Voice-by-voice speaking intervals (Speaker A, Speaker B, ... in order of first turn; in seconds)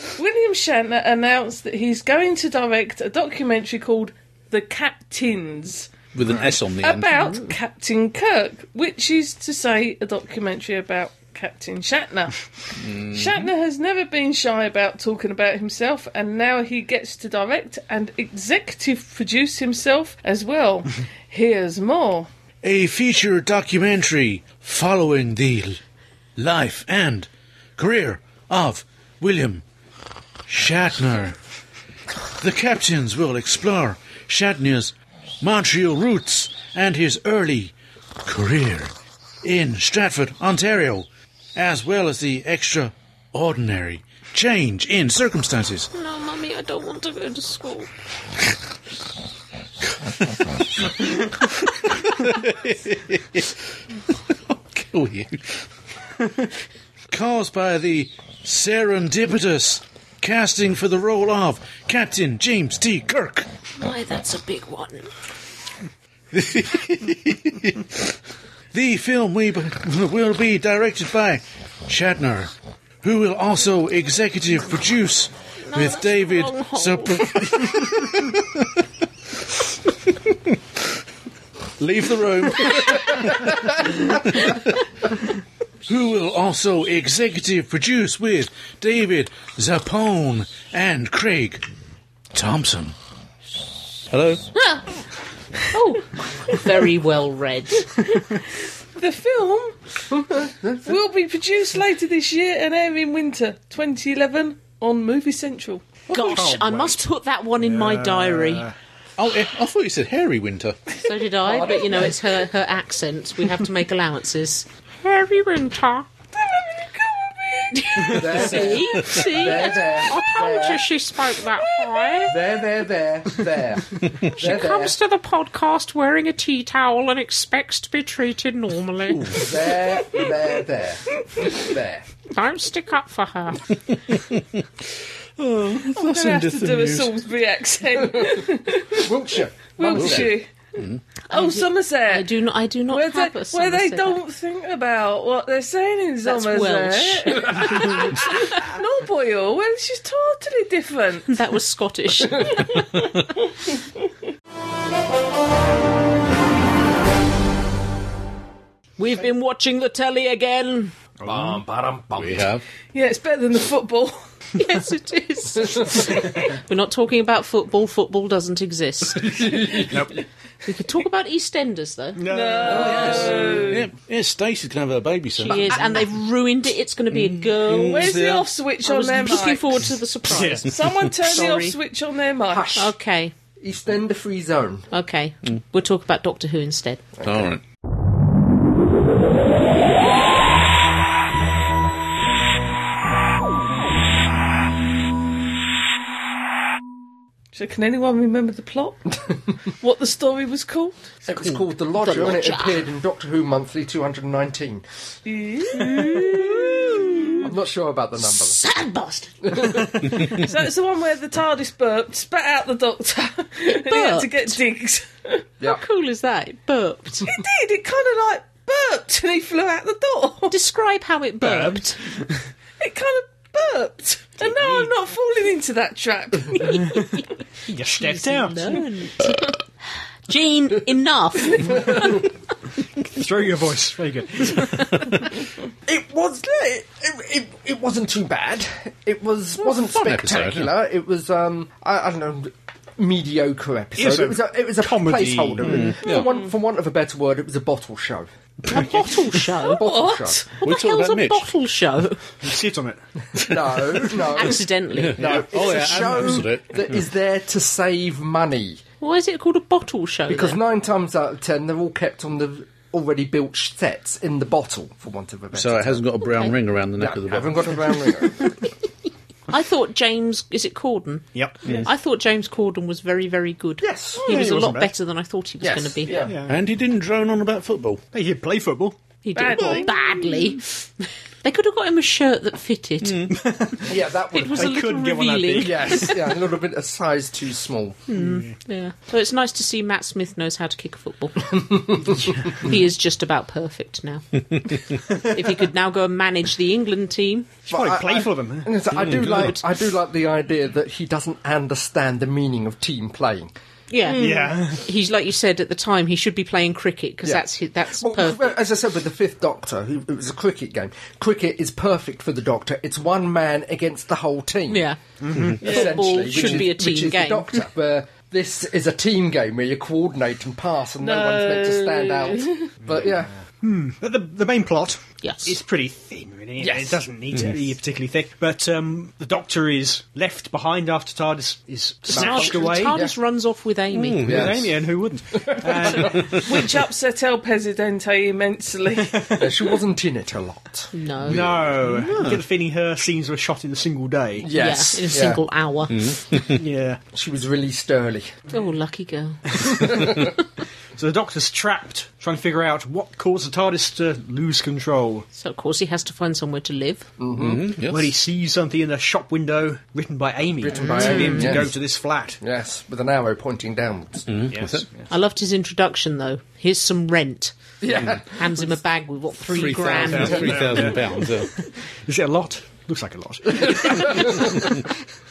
Speaker A: 0.1-6.0, 6.8-22.3, 98.1-99.8, 100.8-106.0, 116.3-118.7, 121.7-122.2, 135.7-139.1, 139.8-140.5, 141.3-142.3, 142.9-151.3, 162.9-164.2, 172.3-173.8, 177.8-179.8, 180.6-182.7, 197.5-199.1, 199.8-201.1, 205.2-206.4, 210.2-215.4, 217.2-220.5, 222.8-227.0, 246.0-246.5, 249.7-250.4, 279.3-279.9, 304.0-304.6, 321.0-322.7, 336.3-339.5
Speaker B: 6.1-7.1, 12.8-13.4, 22.6-25.8, 26.4-29.6, 30.5-31.4, 32.4-38.9, 39.4-45.9, 51.0-53.6, 54.3-55.6, 57.1-63.5, 66.3-68.1, 68.7-78.7, 81.8-84.8, 85.8-91.6, 92.3-92.9, 94.1-94.4, 109.2-110.8, 129.1-129.5, 134.1-134.4, 135.4-137.1, 139.9-141.0, 162.2-162.6, 172.9-175.8, 177.1-178.5, 187.2-187.6, 239.9-240.7, 245.6-246.3, 250.6-251.5, 254.9-256.9, 265.5-267.9, 276.5-278.0, 283.0-283.3, 299.0-299.4, 333.9-334.6, 336.2-336.6, 341.3-342.4, 345.9-346.6, 357.4-358.1, 364.3-364.9, 369.5-371.5
Speaker C: 45.9-47.9, 63.8-65.1, 75.6-77.4, 94.5-94.8, 95.7-98.1, 106.1-108.7, 111.0-116.1, 117.7-122.3, 124.3-129.8, 132.3-133.8, 141.3-144.2, 146.2-148.7, 151.3-152.8, 159.0-160.9, 164.5-169.8, 170.6-172.2, 175.3-178.1, 178.8-181.8, 182.7-183.3, 184.9-187.0, 202.0-202.8, 205.7-207.5, 208.2-209.8, 213.6-214.6, 215.6-217.4, 220.5-222.0, 226.5-229.6, 230.3-232.2, 248.7-249.8, 250.6-252.2, 254.3-255.4, 259.0-260.6, 269.5-271.3, 271.8-276.2, 279.2-286.3, 288.1-297.6, 303.9-308.5, 314.7-317.7, 325.2-325.6, 332.1-334.3, 340.9-341.5, 344.5-346.2, 348.5-349.9, 355.3-357.1, 360.7-361.6, 365.1-367.5, 368.2-370.7
Speaker D: 100.1-101.0, 111.4-112.1, 118.1-120.8, 122.3-125.0, 129.3-132.0, 138.9-140.3, 161.2-162.5, 165.6-166.1, 169.2-170.1, 172.6-173.6, 182.5-182.9, 183.6-184.9, 201.2-204.8, 206.1-206.8, 207.4-208.6, 209.4-210.2, 235.8-248.8, 249.6-250.4, 253.4-254.6, 255.2-258.8, 260.3-266.1, 266.9-268.5, 273.8-274.3, 275.6-276.3, 283.8-284.7, 285.5-288.0, 291.5-292.3, 297.7-303.5, 307.2-314.9, 315.6-323.3, 326.6-327.7, 332.1-333.1, 334.2-334.7, 335.3-336.3, 339.3-340.9, 344.4-345.4, 347.1-348.3, 349.6-350.3, 357.2-357.7, 360.6-361.7, 362.4-364.3, 367.8-368.7, 369.8-370.8, 373.5-374.9
Speaker E: 106.3-107.0, 107.6-108.7, 161.2-161.5, 169.9-170.2, 172.2-173.7, 180.3-180.7, 221.4-222.4, 226.9-228.8, 233.1-235.1, 244.0-246.0, 252.4-253.0, 274.2-274.9, 276.2-276.6, 278.1-279.0, 283.3-284.0, 284.5-286.1, 288.1-288.5, 297.7-299.6, 304.1-304.9, 315.2-315.6, 322.9-333.1, 334.2-336.3, 339.1-339.4, 341.3-344.5, 346.4-347.0, 350.9-355.3, 357.8-362.4, 364.5-365.1, 369.5-374.9